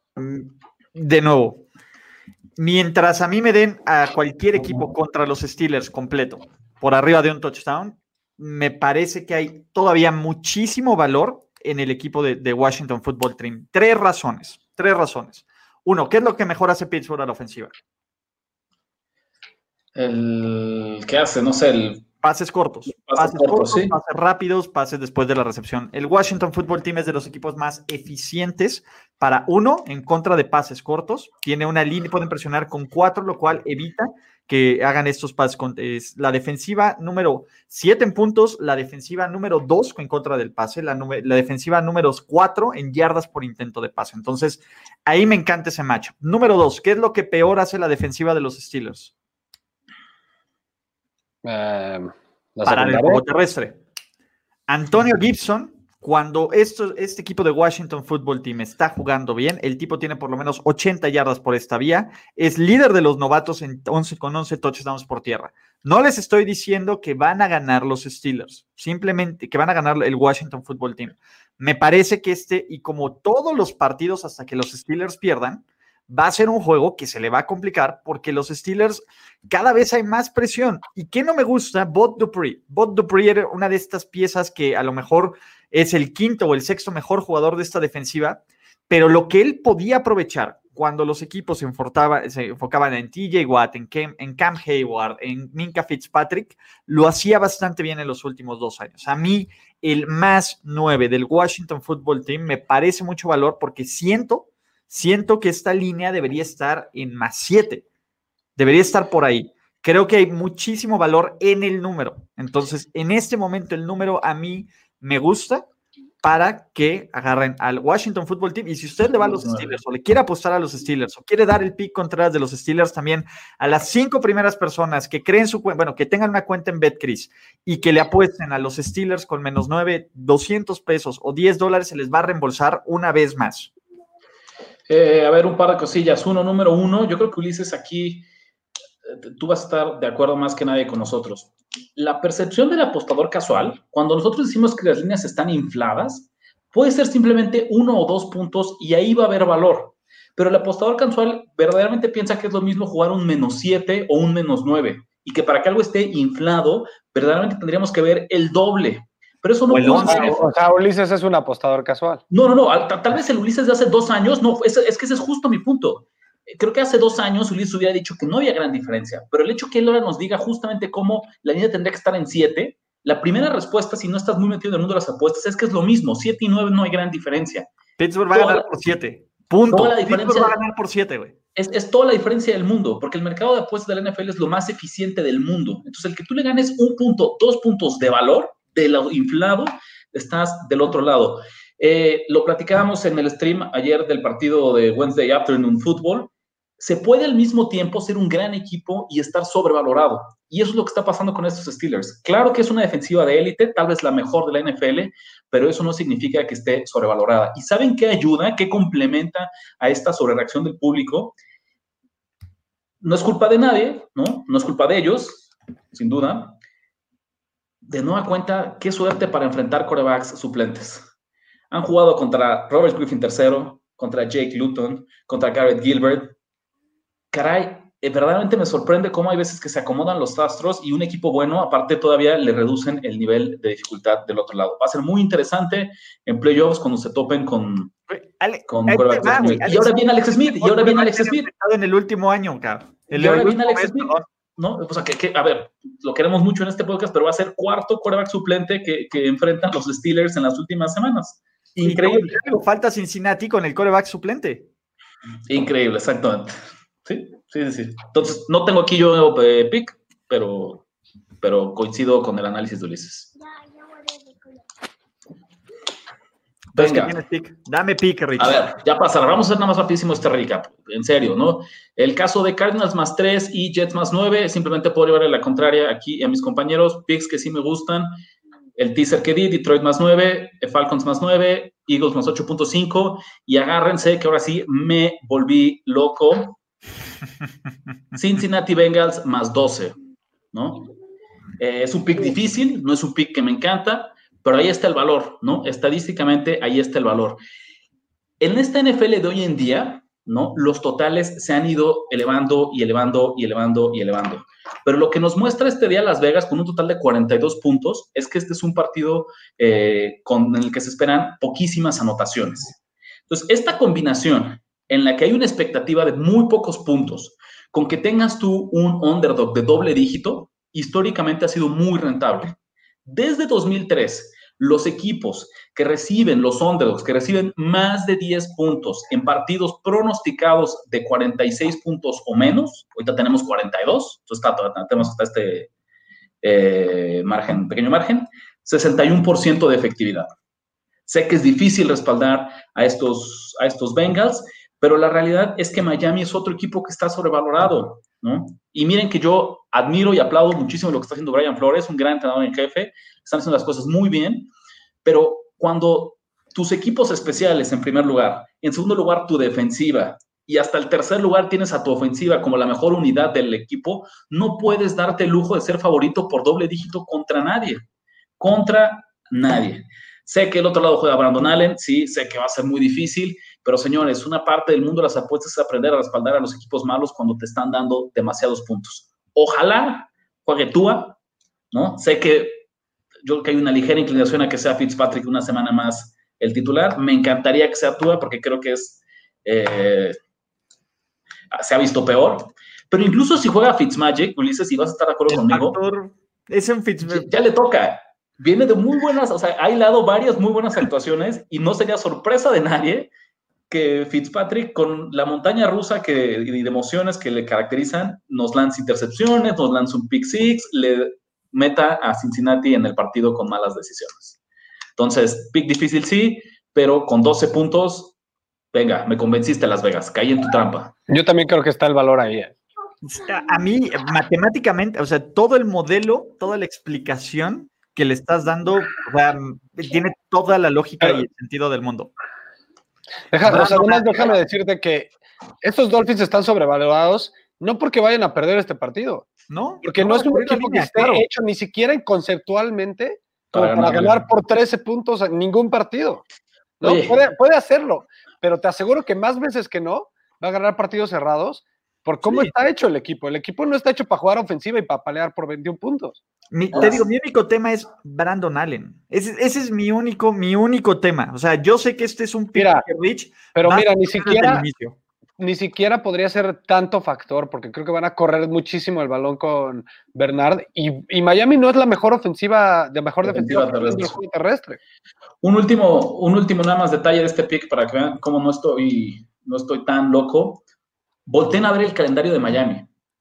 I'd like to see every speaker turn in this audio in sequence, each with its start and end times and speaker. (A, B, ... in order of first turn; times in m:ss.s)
0:00.2-0:01.6 A
0:02.6-0:17.7 A
0:19.9-0:22.0 B
0:22.2-0:49.1 A
0:22.9-0:23.9 B
0:51.4-0:53.2 C
0:52.6-0:53.8 A
0:54.7-1:47.8 A
1:48.6-1:55.7 A
1:56.2-2:13.7 A
1:59.2-1:59.8 B
2:14.9-2:18.2 B
2:19.1-2:40.4 B
2:39.7-2:40.4 A
2:39.9-2:42.2 C
2:42.3-2:57.7 B
2:58.0-3:01.3 A
2:58.3-2:58.7 B
2:59.7-3:00.6 B
3:01.6-3:31.4 B
3:33.0-3:36.6 B
3:37.8-3:41.1 B
3:41.7-3:46.3 B
3:47.3-3:57.9 B
3:58.1-4:04.3 A
3:58.7-4:01.5 B
4:03.1-4:12.6 B
4:11.8-4:14.7 A
4:15.5-4:16.5 B
4:17.0-4:20.8 B
4:21.4-4:23.3 B
4:26.7-4:27.2 B
4:26.7-4:28.6 A
4:28.4-4:38.1 B
4:38.8-4:46.6 B
4:48.1-4:50.0 B
4:50.5-4:50.9 B
4:51.6-4:57.4 B
4:58.4-5:12.8 B
5:13.3-5:35.7 B
5:36.4-5:40.3 B
5:41.1-5:54.5 B
5:55.0-6:07.8 B
6:08.4-6:21.2 B
6:21.7-6:22.6 B
6:23.2-6:30.2 B
6:31.5-6:35.8 B
6:35.3-6:37.3 A
6:37.0-6:43.1 B
6:43.7-6:54.4 B
6:55.0-6:58.1 B
6:58.7-7:01.0 B
7:01.1-7:02.6 C
7:03.0-7:12.1 A
7:13.3-7:15.1 C
7:13.4-7:14.4 A
7:15.6-7:19.3 C
7:19.5-7:21.2 A
7:19.8-7:26.2 C
7:23.5-7:24.2 B
7:26.8-7:36.2 C
7:26.8-7:27.2 B
7:36.5-7:45.0 A
7:42.5-7:42.8 C
7:43.5-7:44.6 C
7:45.4-7:54.8 C
7:53.2-7:54.2 B
7:55.4-8:00.6 B
8:01.2-8:02.9 B